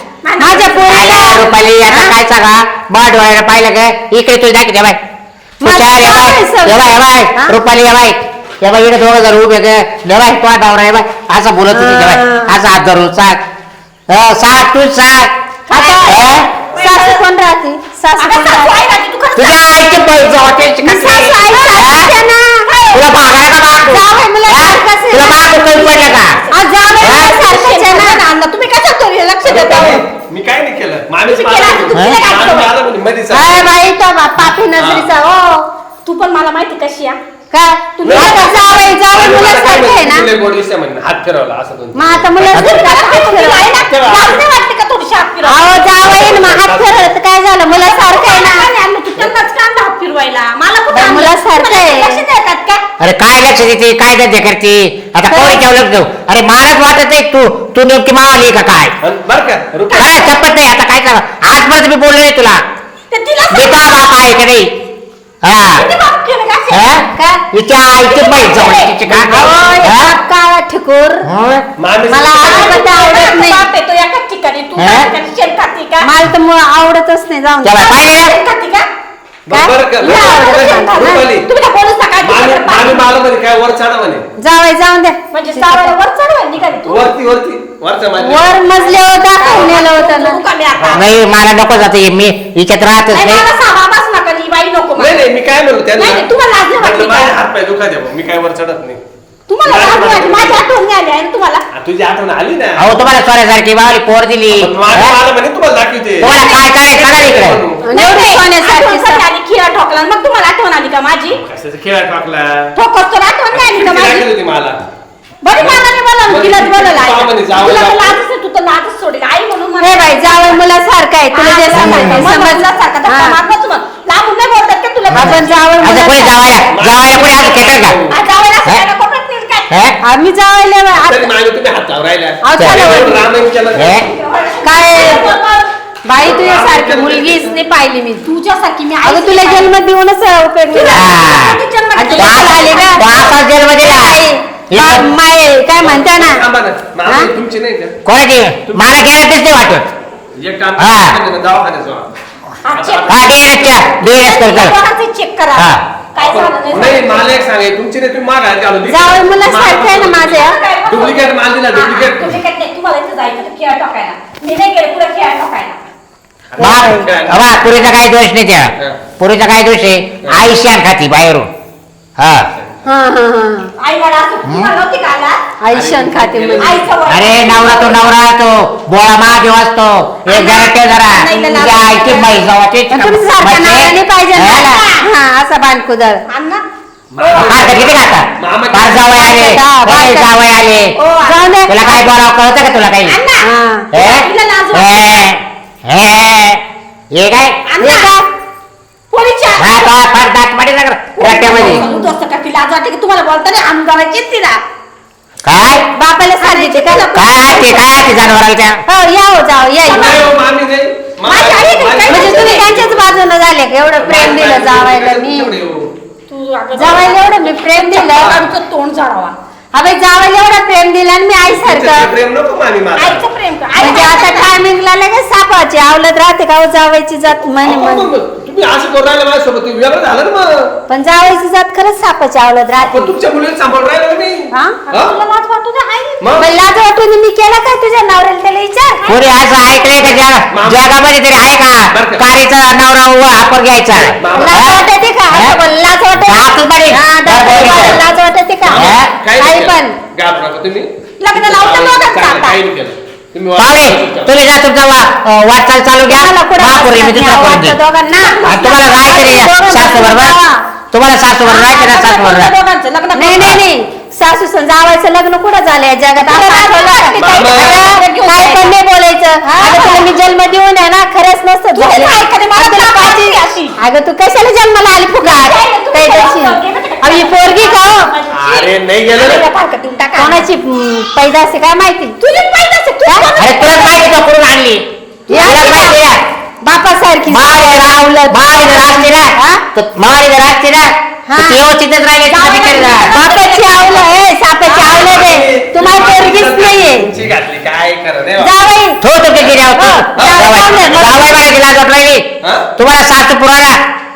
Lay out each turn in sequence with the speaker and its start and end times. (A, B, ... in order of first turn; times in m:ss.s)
0:00.2-0:01.4 A
0:00.4-0:02.1 B
0:00.9-0:05.0 C
0:05.6-0:07.6 B
0:05.6-0:13.4 C
0:11.7-0:12.5 B
0:14.1-0:15.3 C
0:15.7-0:18.7 B
0:15.7-0:17.2 A
0:16.0-0:16.5 C
0:18.2-0:19.9 A
0:19.4-0:22.1 C
0:20.6-0:21.9 A
0:20.8-0:22.7 B
0:22.6-0:23.1 A
0:22.9-0:26.4 C
0:23.8-0:26.0 B
0:25.7-0:30.0 A
0:26.5-0:28.2 B
0:27.0-0:27.3 C
0:29.4-0:33.7 D
0:31.2-0:32.7 A
0:33.3-0:35.6 B
0:34.8-0:35.1 D
0:36.0-0:37.2 A
0:37.5-0:40.3 B
0:38.0-0:39.0 A
0:38.0-0:42.7 D
0:41.9-0:43.7 B
0:42.5-0:45.7 A
0:43.8-0:44.4 D
0:45.4-0:48.7 B
0:45.9-0:47.1 D
0:47.7-0:52.8 A
0:50.9-0:52.2 B
0:53.0-0:58.9 C
0:55.3-0:55.6 B
0:59.0-1:00.3 D
0:59.9-1:00.3 A
1:00.0-1:02.6 C
1:03.1-1:04.2 A
1:03.5-1:04.7 C
1:05.4-1:05.9 C
1:05.6-1:06.9 A
1:06.7-1:10.1 C
1:07.1-1:07.4 B
1:07.9-1:09.7 A
1:09.3-1:11.3 B
1:11.2-1:11.6 C
1:11.8-1:13.1 D
1:12.1-1:13.7 B
1:12.4-1:16.1 A
1:14.8-1:15.1 C
1:16.0-1:18.0 B
1:17.6-1:18.4 C
1:18.0-1:18.8 A
1:19.5-1:21.5 D
1:19.5-1:21.2 B
1:20.0-1:23.1 A
1:22.2-1:24.2 D
1:24.4-1:25.9 B
1:25.3-1:27.1 A
1:26.8-1:28.6 D
1:28.2-1:30.4 B
1:28.8-1:31.1 A
1:30.7-1:31.0 D
1:30.9-1:33.4 C
1:33.1-1:35.2 A
1:35.0-1:39.0 D
1:36.0-1:37.4 A
1:39.5-1:41.6 A
1:39.6-1:40.6 D
1:41.7-1:42.9 D
1:42.8-1:45.2 C
1:44.5-1:46.4 D
1:46.2-1:47.6 C
1:46.2-1:47.1 A
1:47.0-1:48.0 D
1:47.8-1:49.2 B
1:47.9-1:51.4 A
1:51.4-1:52.7 D
1:52.8-1:54.3 A
1:53.5-1:54.8 D
1:55.4-2:00.6 A
1:55.6-1:58.2 D
1:59.8-2:03.4 B
2:01.3-2:05.8 A
2:01.8-2:02.3 C
2:05.1-2:06.6 B
2:05.1-2:08.0 C
2:06.7-2:08.2 D
2:08.1-2:09.9 A
2:09.7-2:10.0 C
2:10.0-2:11.3 B
2:11.0-2:14.0 D
2:12.4-2:13.3 B
2:12.6-2:13.0 C
2:13.7-2:14.1 C
2:14.0-2:15.7 A
2:14.6-2:15.3 B
2:16.0-2:18.2 B
2:16.2-2:17.6 D
2:18.2-2:19.7 A
2:19.0-2:21.1 B
2:20.7-2:23.4 A
2:20.9-2:21.6 C
2:21.9-2:23.1 B
2:22.2-2:25.1 C
2:23.8-2:26.4 B
2:25.8-2:28.0 D
2:28.0-2:29.8 C
2:28.7-2:28.9 D
2:30.4-2:32.1 D
2:30.8-2:31.2 C
2:32.6-2:37.4 A
2:32.7-2:33.8 D
2:33.1-2:34.8 C
2:35.5-2:35.8 C
2:36.2-2:42.4 D
2:38.9-2:40.6 B
2:40.3-2:45.8 A
2:46.5-2:47.7 D
2:46.6-2:47.1 B
2:46.6-2:51.5 C
2:52.2-2:52.5 C
2:52.5-2:52.8 D
2:52.8-2:53.7 B
2:53.8-2:55.4 A
2:54.4-2:54.7 C
2:55.6-2:56.8 B
2:55.7-2:56.9 D
2:56.6-2:58.1 A
2:57.0-3:04.7 C
3:00.2-3:02.3 A
3:02.9-3:06.2 B
3:04.6-3:05.0 A
3:06.3-3:06.6 A
3:07.1-3:09.3 D
3:07.3-3:10.9 C
3:09.1-3:10.3 B
3:11.0-3:12.0 A
3:11.2-3:11.8 B
3:11.7-3:13.2 C
3:13.0-3:15.4 A
3:13.4-3:13.9 B
3:13.9-3:16.6 C
3:17.1-3:17.5 C
3:17.7-3:18.1 A
3:17.8-3:18.3 B
3:19.1-3:20.0 A
3:19.6-3:21.8 C
3:21.2-3:24.6 A
3:21.4-3:22.1 B
3:25.4-3:25.8 C
3:25.7-3:27.0 B
3:26.4-3:28.2 A
3:27.1-3:28.8 C
3:28.9-3:30.3 B
3:29.8-3:33.1 D
3:31.2-3:32.6 A
3:32.1-3:35.5 B
3:34.0-3:35.9 D
3:36.3-3:39.4 A
3:36.8-3:38.4 B
3:36.8-3:37.1 D
3:38.2-3:38.5 D
3:39.7-3:42.1 B
3:41.5-3:43.2 D
3:42.9-3:44.5 A
3:43.8-3:48.1 B
3:47.6-3:50.7 D
3:50.9-3:53.1 B
3:52.8-3:55.2 D
3:54.9-3:56.2 A
3:56.2-3:56.5 D
3:56.4-3:59.0 B
3:59.0-4:00.2 A
3:59.1-4:05.6 C
4:00.5-4:00.9 D
4:01.9-4:02.2 D
4:04.2-4:04.7 D
4:04.3-4:10.0 B
4:06.2-4:08.0 C
4:08.6-4:14.4 D
4:08.7-4:09.1 C
4:11.2-4:12.6 A
4:13.6-4:17.8 C
4:16.1-4:20.6 B
4:18.1-4:19.5 A
4:18.4-4:20.4 C
4:20.9-4:22.5 C
4:21.4-4:23.6 A
4:23.2-4:38.1 B
4:26.2-4:28.7 A
4:27.2-4:27.9 D
4:29.5-4:30.1 A
4:31.7-4:33.8 A
4:35.2-4:40.5 A
4:38.3-4:39.4 D
4:40.2-4:42.2 B
4:42.2-4:44.2 A
4:43.4-4:44.8 C
4:45.3-4:46.0 A
4:45.3-4:46.0 B
4:45.4-4:46.2 C
4:46.6-4:49.6 B
4:47.3-4:53.1 C
4:51.3-4:51.6 B
4:52.3-4:54.1 A
4:53.1-4:57.1 B
4:54.6-4:55.0 A
4:54.8-4:58.5 D
4:58.4-4:59.0 B
4:59.0-5:02.2 C
4:59.7-5:01.2 B
5:00.2-5:01.4 D
5:02.4-5:02.7 D
5:02.8-5:03.8 C